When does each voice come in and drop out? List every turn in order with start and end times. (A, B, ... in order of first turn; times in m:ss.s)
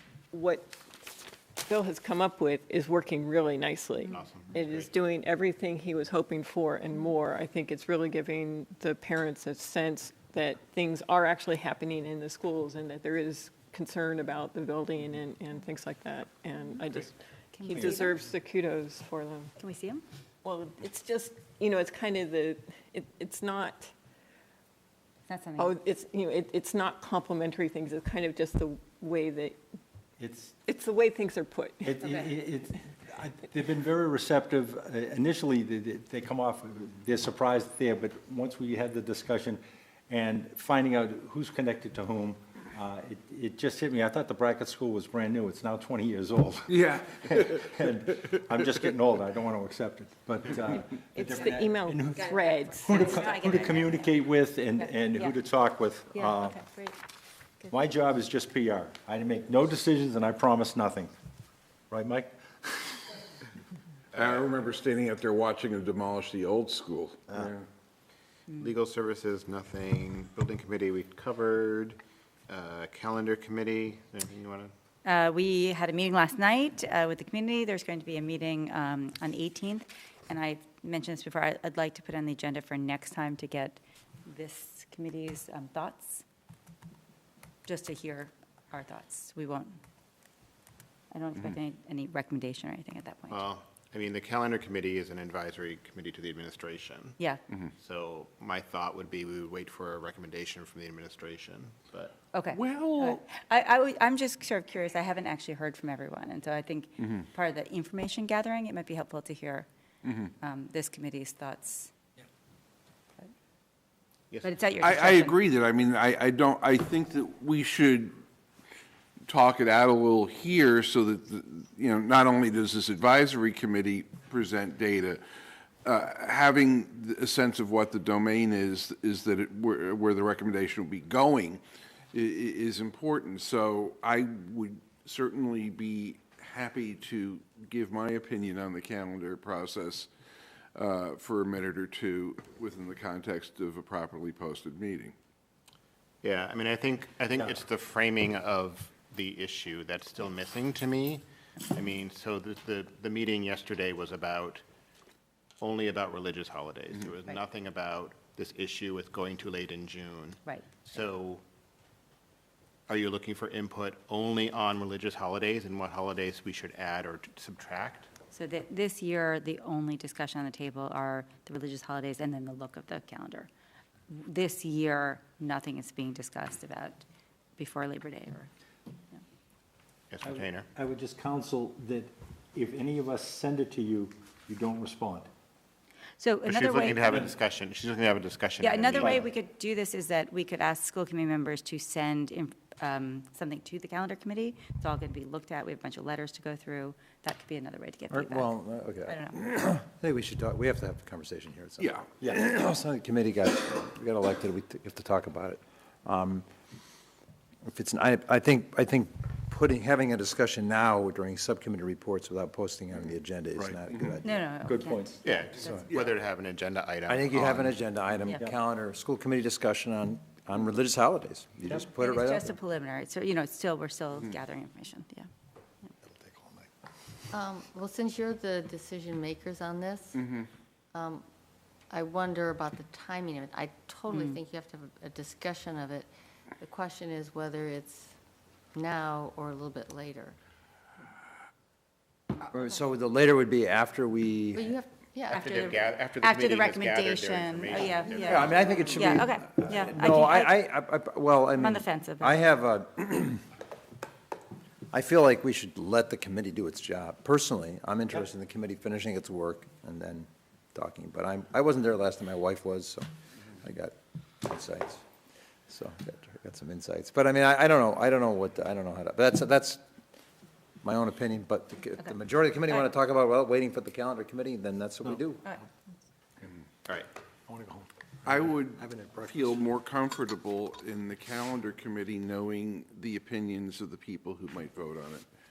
0:00.3-0:00.7 A
0:01.6-0:19.5 A
0:04.1-0:04.9 B
0:17.5-0:18.1 C
0:19.6-0:20.0 C
0:20.4-0:23.9 A
0:25.3-0:25.7 C
0:25.6-0:29.6 A
0:30.2-0:30.5 D
0:30.6-0:32.1 A
0:31.8-0:52.3 D
0:46.7-0:47.5 E
0:51.1-0:53.0 A
0:52.2-0:54.1 C
0:52.8-0:56.6 D
0:54.8-0:55.3 C
0:56.1-0:56.9 C
0:57.7-1:01.1 D
1:01.9-1:03.0 D
1:04.1-1:04.5 B
1:04.2-1:07.6 E
1:08.5-1:14.7 B
1:15.0-1:26.2 C
1:27.6-1:29.8 C
1:31.1-1:33.4 C
1:33.3-1:37.2 B
1:37.8-1:42.2 B
1:42.3-1:49.7 C
1:42.5-1:43.2 E
1:50.4-1:51.9 C
1:54.4-1:55.4 C
1:54.8-1:58.2 E
1:59.3-2:05.2 E
2:05.8-2:11.6 E
2:12.1-2:20.1 E
2:20.7-2:25.1 E
2:26.2-2:34.6 B
2:35.6-2:41.4 B
2:40.4-2:40.8 C
2:42.9-2:48.1 B
2:48.3-2:53.5 C
2:54.1-2:57.0 C
2:57.6-2:58.5 C
3:00.1-3:00.7 B
3:00.2-3:05.3 D
3:06.2-3:07.1 C
3:06.4-3:09.3 B
3:07.1-3:07.3 D
3:08.6-3:18.5 C
3:18.1-3:26.4 F
3:19.1-3:19.4 C
3:21.8-3:22.1 E
3:27.7-3:34.3 F
3:34.2-3:35.7 C
3:34.6-3:35.8 D
3:35.2-3:37.8 B
3:37.1-3:42.5 F
3:41.9-3:45.3 C
3:46.0-3:46.7 D
3:47.3-3:50.3 G
3:50.9-3:51.2 G
3:51.9-3:56.1 G
3:56.6-3:58.1 G
3:58.7-4:00.4 G
4:02.5-4:04.7 F
4:04.5-4:05.4 G
4:05.3-4:09.1 B
4:05.3-4:10.6 C
4:08.1-4:13.4 F
4:11.5-4:12.4 C
4:14.9-4:23.0 F
4:23.6-4:25.0 F
4:25.7-4:29.8 F
4:30.8-4:35.4 F
4:37.5-4:39.7 D
4:38.2-4:45.2 E